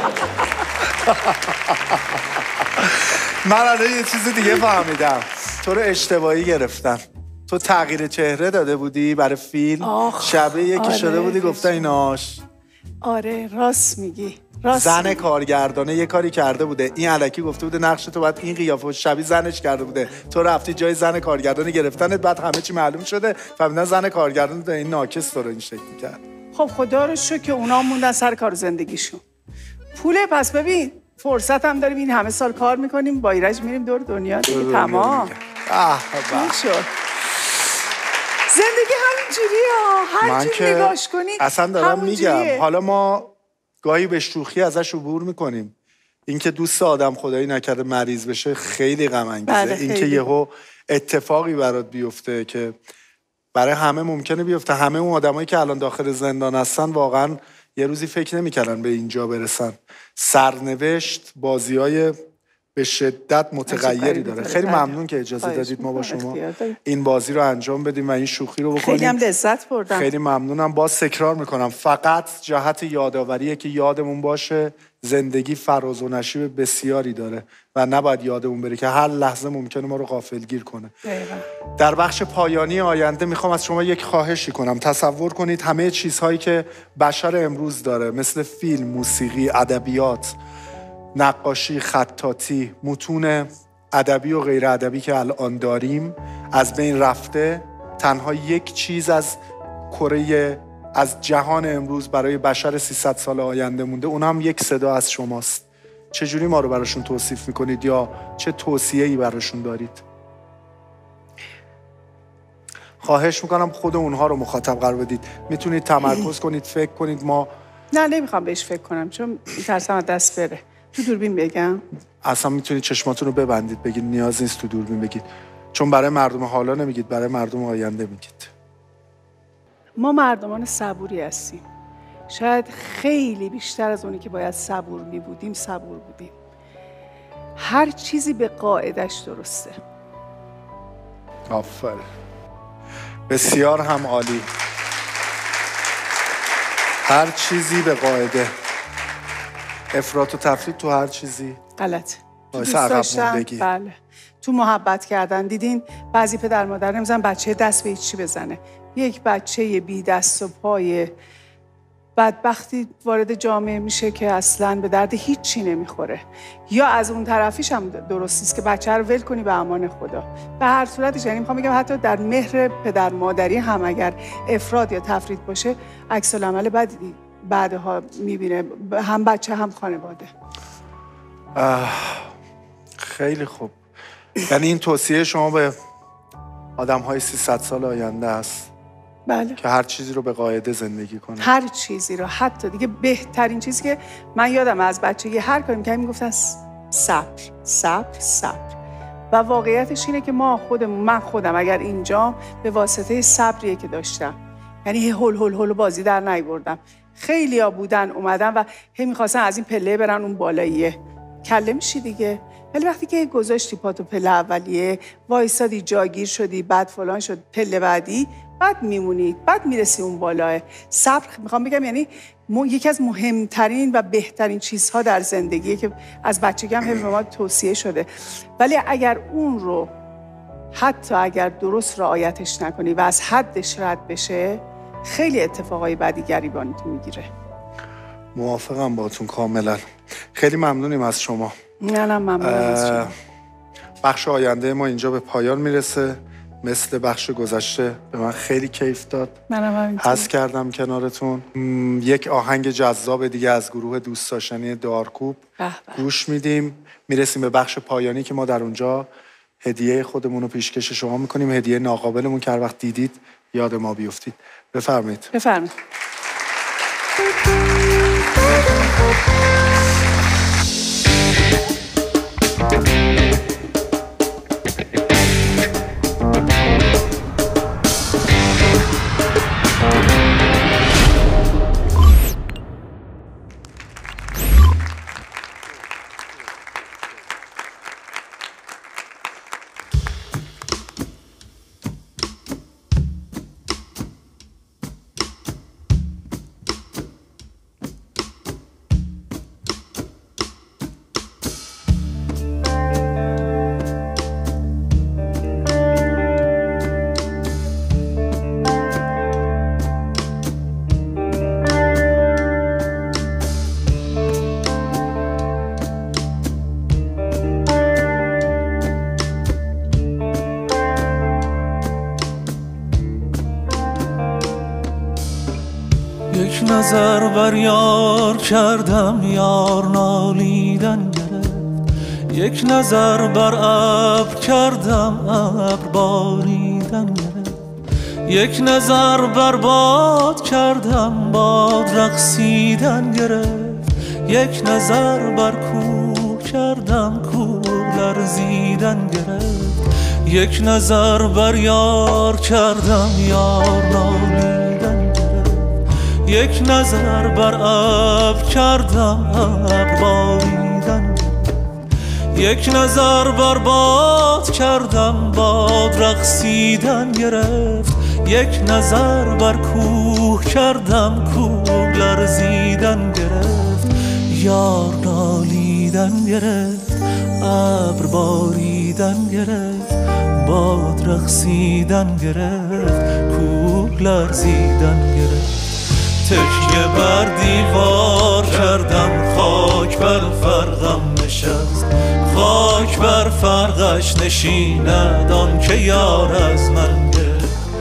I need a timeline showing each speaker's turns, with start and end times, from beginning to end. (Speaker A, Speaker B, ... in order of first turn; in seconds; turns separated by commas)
Speaker A: 0.9-12.4, Speaker B: 9.8-11.9, Speaker B: 13.0-15.2, Speaker A: 14.7-26.2, Speaker B: 26.5-29.2, Speaker B: 29.9-35.3, Speaker A: 34.5-36.6, Speaker B: 36.3-36.9, Speaker B: 38.5-42.6, Speaker A: 40.2-45.7, Speaker A: 46.3-52.8, Speaker B: 49.5-50.2, Speaker A: 53.5-62.1, Speaker A: 62.8-69.2, Speaker B: 63.7-66.8, Speaker B: 68.8-70.1, Speaker A: 69.9-80.9, Speaker B: 81.0-81.4, Speaker A: 81.8-90.3, Speaker A: 91.2-99.4, Speaker A: 99.9-110.0, Speaker A: 113.0-117.5, Speaker B: 117.9-121.8, Speaker A: 122.2-128.5, Speaker B: 130.0-131.6, Speaker B: 132.3-136.3, Speaker B: 137.6-139.8, Speaker A: 141.5-142.1, Speaker A: 143.3-144.5, Speaker A: 147.0-148.5, Speaker A: 149.9-151.6, Speaker B: 151.8-161.1, Speaker A: 152.5-153.7, Speaker B: 162.2-180.3, Speaker A: 181.5-182.3, Speaker A: 183.0-183.8, Speaker A: 184.4-185.8, Speaker A: 186.8-188.7, Speaker B: 189.3-189.6, Speaker A: 189.6-191.5, Speaker B: 191.4-198.8, Speaker B: 199.3-229.9, Speaker B: 230.7-237.3, Speaker A: 238.3-241.6, Speaker B: 241.8-243.1, Speaker A: 242.4-243.1, Speaker A: 244.0-249.4, Speaker B: 249.5-250.3, Speaker A: 250.0-255.4, Speaker B: 255.6-256.0, Speaker A: 255.9-259.1, Speaker A: 259.6-265.3, Speaker B: 265.3-265.7, Speaker C: 326.3-337.6, Speaker C: 338.2-361.7, Speaker C: 362.3-385.6, Speaker C: 386.2-397.6